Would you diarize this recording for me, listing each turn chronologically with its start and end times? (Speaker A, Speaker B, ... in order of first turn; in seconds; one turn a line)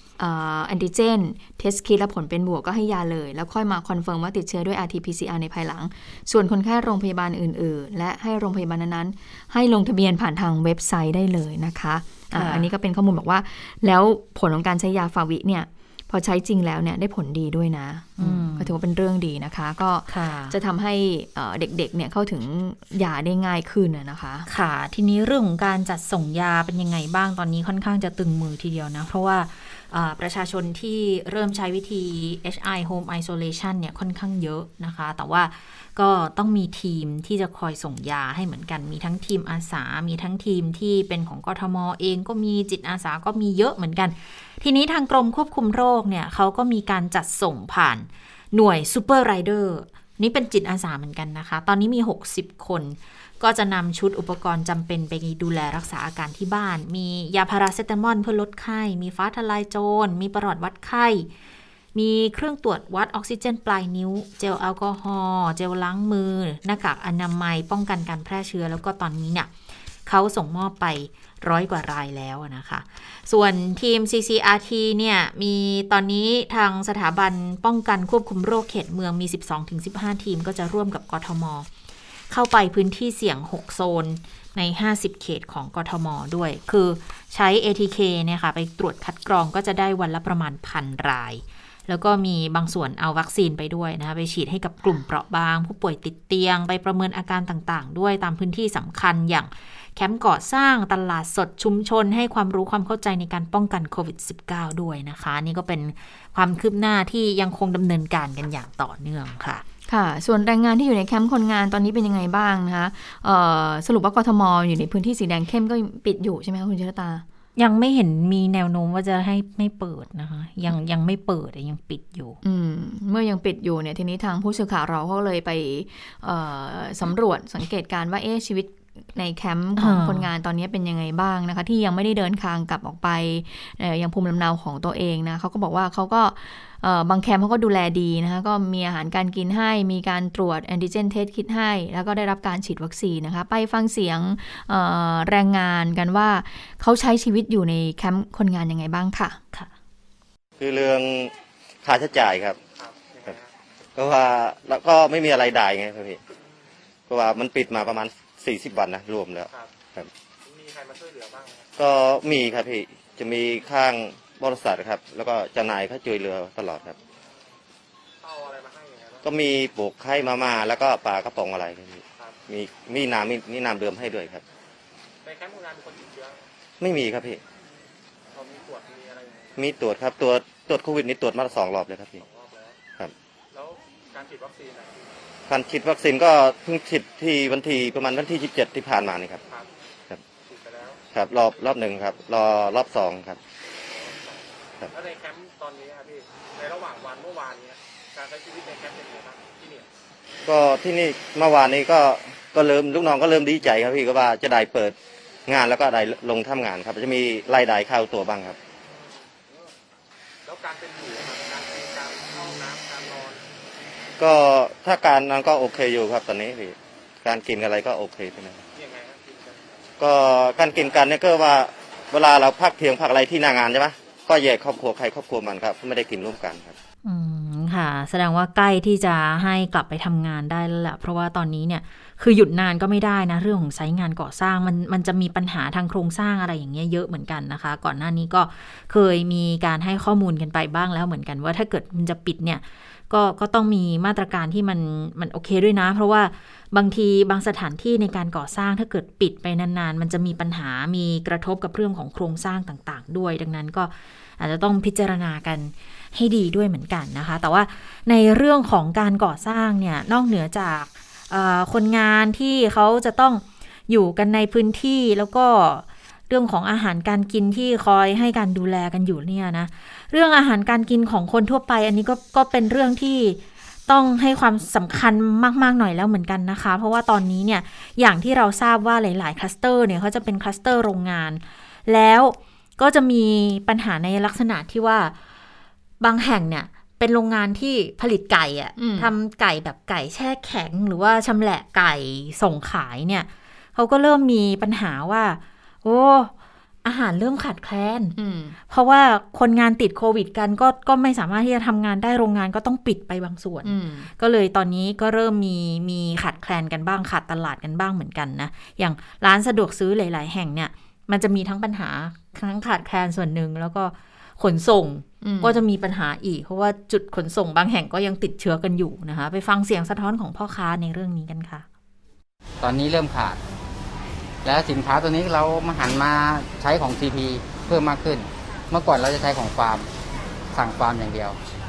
Speaker A: 0.2-24.5
Speaker B: 12.3-12.7
Speaker B: 18.2-18.7
Speaker B: 20.1-20.6
Speaker B: 24.5-61.3
Speaker B: 61.9-69.5
Speaker B: 70.1-81.7
Speaker B: 82.3-109.6
Speaker A: 109.9-117.2
Speaker B: 117.6-122.4
Speaker A: 122.4-149.4
Speaker B: 129.8-130.3
Speaker C: 150.6-151.3
Speaker C: 151.8-152.6
Speaker D: 152.7-153.5
Speaker C: 154.0-156.2
Speaker C: 157.1-160.1
Speaker D: 160.5-161.7
Speaker C: 161.8-167.0
Speaker D: 168.2-169.3
Speaker C: 169.2-174.4
Speaker D: 175.2-176.4
Speaker C: 176.8-177.4
Speaker D: 178.3-179.6
Speaker C: 179.6-182.2
Speaker D: 182.2-182.8
Speaker D: 183.5-185.1
Speaker C: 185.5-189.4
Speaker D: 190.4-191.0
Speaker C: 191.1-193.4
Speaker D: 193.9-199.9
Speaker C: 200.5-205.0
Speaker C: 205.5-208.6
Speaker D: 210.4-213.4
Speaker C: 214.2-218.6
Speaker D: 218.8-219.7
Speaker C: 220.0-226.8
Speaker B: 227.0-285.1
Speaker B: 286.0-296.3
Speaker A: 288.8-289.1
Speaker B: 296.8-298.1
Speaker A: 298.2-298.6
Speaker B: 298.7-321.7
Speaker A: 303.6-304.1
Speaker A: 315.2-315.6
Speaker E: 322.6-323.4
Speaker E: 324.4-329.9
Speaker E: 330.5-331.4